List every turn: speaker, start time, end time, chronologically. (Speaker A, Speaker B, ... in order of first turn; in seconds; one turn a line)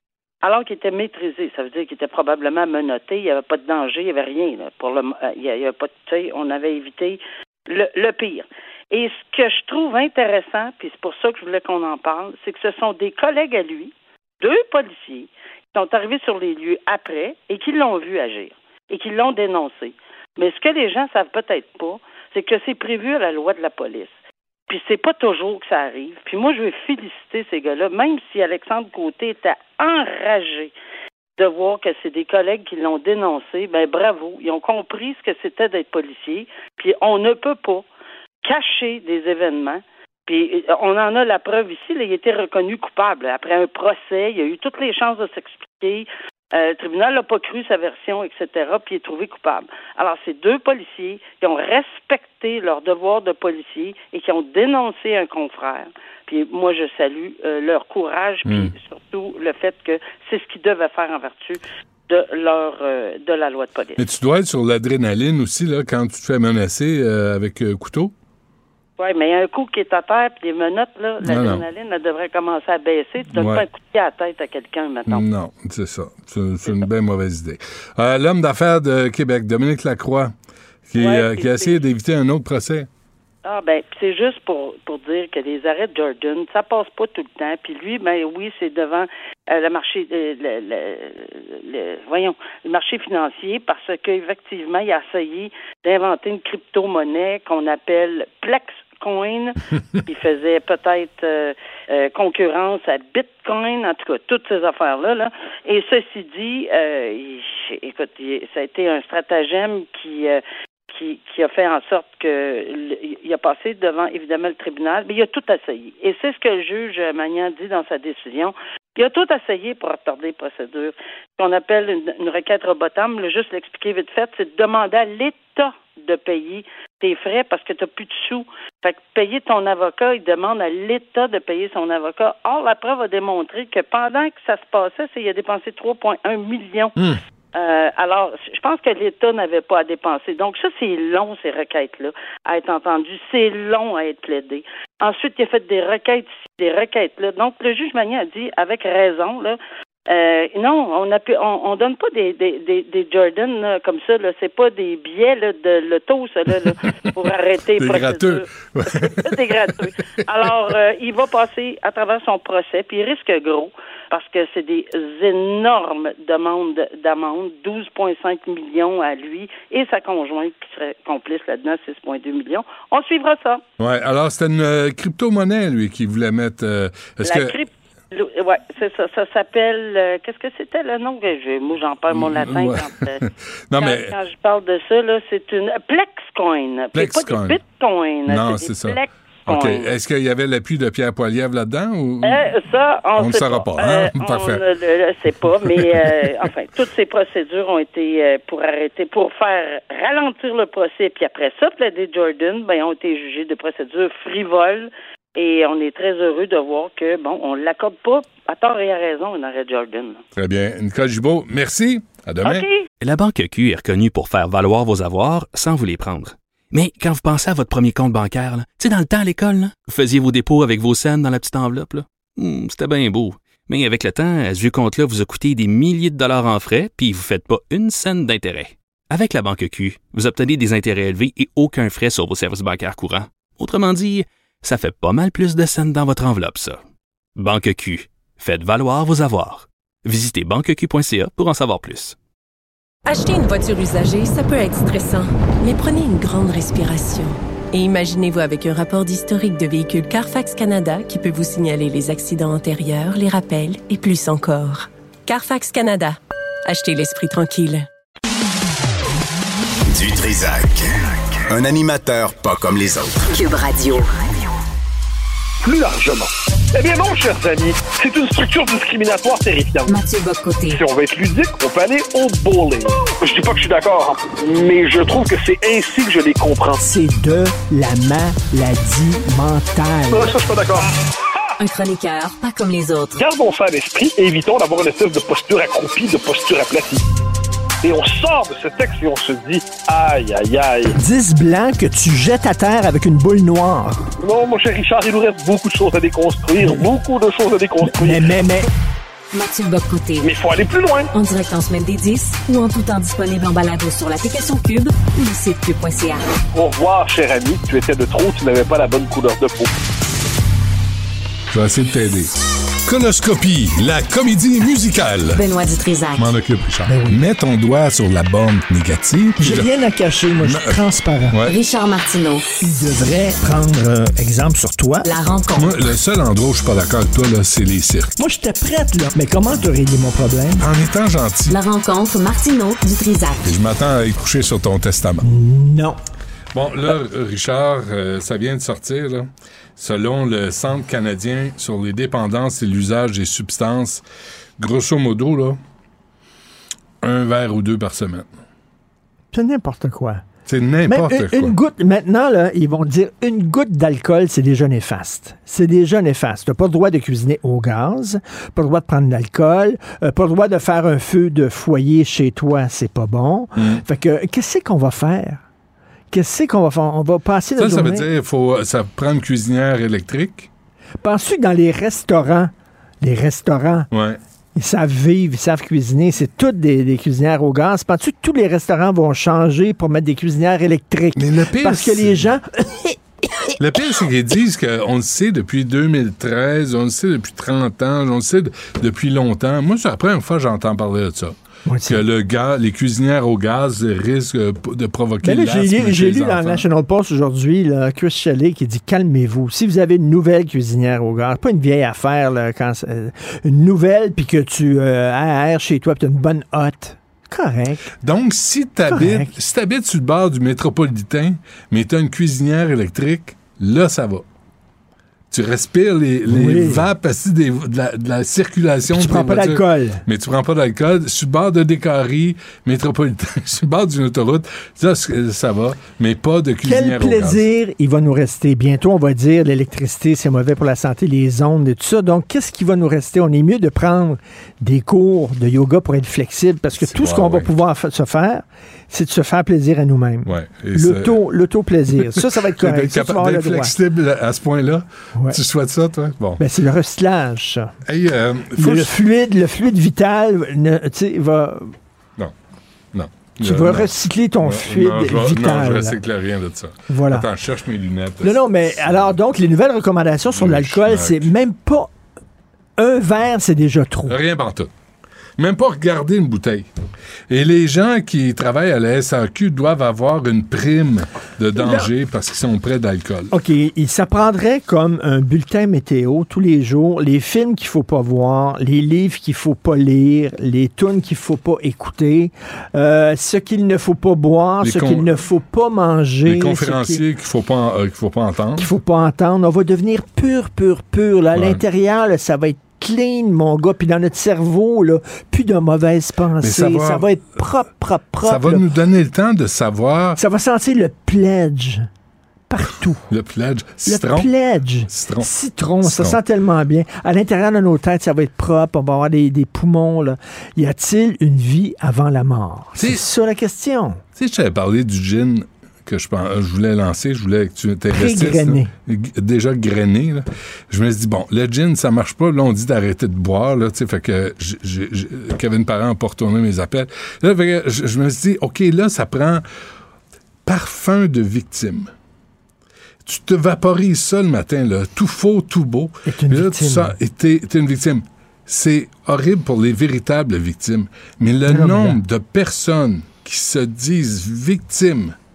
Speaker A: 0.4-24.1
Speaker A: 24.7-30.7
Speaker A: 31.4-37.9
Speaker A: 38.4-64.0
Speaker B: 58.4-58.7
Speaker B: 64.0-68.1
Speaker A: 69.0-75.2
Speaker B: 71.2-71.6
Speaker B: 73.3-73.6
Speaker B: 75.1-80.3
Speaker B: 80.9-82.9
Speaker A: 81.0-81.8
Speaker A: 83.4-136.9
Speaker A: 137.5-173.6
Speaker B: 157.8-159.7
Speaker B: 173.8-177.6
Speaker A: 177.2-183.2
Speaker B: 182.1-184.1
Speaker A: 183.8-190.0
Speaker B: 186.9-187.6
Speaker B: 188.3-192.5
Speaker A: 192.2-210.2
Speaker B: 193.2-194.6
Speaker B: 210.3-212.7
Speaker A: 212.4-212.8
Speaker C: 213.0-236.8
Speaker C: 237.3-242.2
Speaker D: 243.1-257.9
Speaker E: 259.9-263.3
Speaker F: 263.3-264.5
Speaker G: 265.6-270.0
Speaker F: 269.9-270.8
Speaker G: 270.7-276.8
Speaker H: 276.8-280.3
Speaker G: 280.1-280.9
Speaker F: 281.6-283.2
Speaker G: 283.1-287.0
Speaker G: 287.8-290.9
Speaker H: 291.0-294.0
Speaker G: 294.2-298.3
Speaker H: 297.8-298.7
Speaker F: 299.3-300.2
Speaker G: 300.2-301.1
Speaker F: 301.1-306.2
Speaker G: 306.5-309.7
Speaker B: 311.5-312.3
Speaker B: 312.9-315.4
Speaker F: 315.3-316.3
Speaker B: 316.1-319.7
Speaker H: 316.9-317.2
Speaker H: 319.4-321.4
Speaker B: 320.4-321.5
Speaker F: 321.4-322.4
Speaker H: 322.6-325.1
Speaker F: 325.0-325.8
Speaker B: 325.5-328.1
Speaker H: 328.2-330.7
Speaker B: 330.6-331.6
Speaker F: 331.5-333.5
Speaker B: 333.4-335.2
Speaker H: 335.2-336.0
Speaker B: 336.5-344.0
Speaker B: 344.6-345.6
Speaker B: 347.0-348.3
Speaker H: 349.3-350.2
Speaker B: 350.5-351.6
Speaker H: 350.9-365.4
Speaker B: 363.6-363.8
Speaker H: 366.1-368.1
Speaker B: 367.6-370.5
Speaker H: 371.0-373.9
Speaker B: 373.9-374.2
Speaker H: 374.6-383.5
Speaker B: 381.1-382.3
Speaker B: 383.6-396.7
Speaker H: 391.7-392.0
Speaker H: 395.2-407.8
Speaker B: 408.0-414.2
Speaker H: 408.9-409.3
Speaker B: 415.3-427.4
Speaker H: 416.3-416.9
Speaker H: 418.9-420.0
Speaker H: 426.6-443.7
Speaker B: 436.8-437.5
Speaker B: 440.2-441.2
Speaker B: 442.0-446.4
Speaker H: 446.4-447.7
Speaker B: 447.9-448.9
Speaker H: 448.6-451.7
Speaker B: 452.9-459.1
Speaker H: 453.4-456.0
Speaker H: 456.9-457.3
Speaker H: 458.2-461.9
Speaker B: 460.3-461.3
Speaker H: 462.8-464.2
Speaker B: 464.1-464.7
Speaker B: 465.4-466.7
Speaker B: 467.3-473.3
Speaker H: 471.6-471.9
Speaker H: 473.3-487.0
Speaker B: 484.6-485.2
Speaker B: 486.2-488.7
Speaker H: 488.6-498.7
Speaker B: 491.3-491.6
Speaker B: 496.4-497.4
Speaker B: 498.2-500.2
Speaker H: 500.2-501.9
Speaker H: 502.5-503.0
Speaker B: 503.1-504.3
Speaker H: 503.9-514.0
Speaker B: 504.9-505.3
Speaker B: 505.8-506.2
Speaker B: 512.8-513.0
Speaker B: 514.1-529.4
Speaker H: 517.9-518.7
Speaker B: 530.5-531.9
Speaker B: 533.0-545.1
Speaker H: 536.0-536.9
Speaker H: 541.5-542.0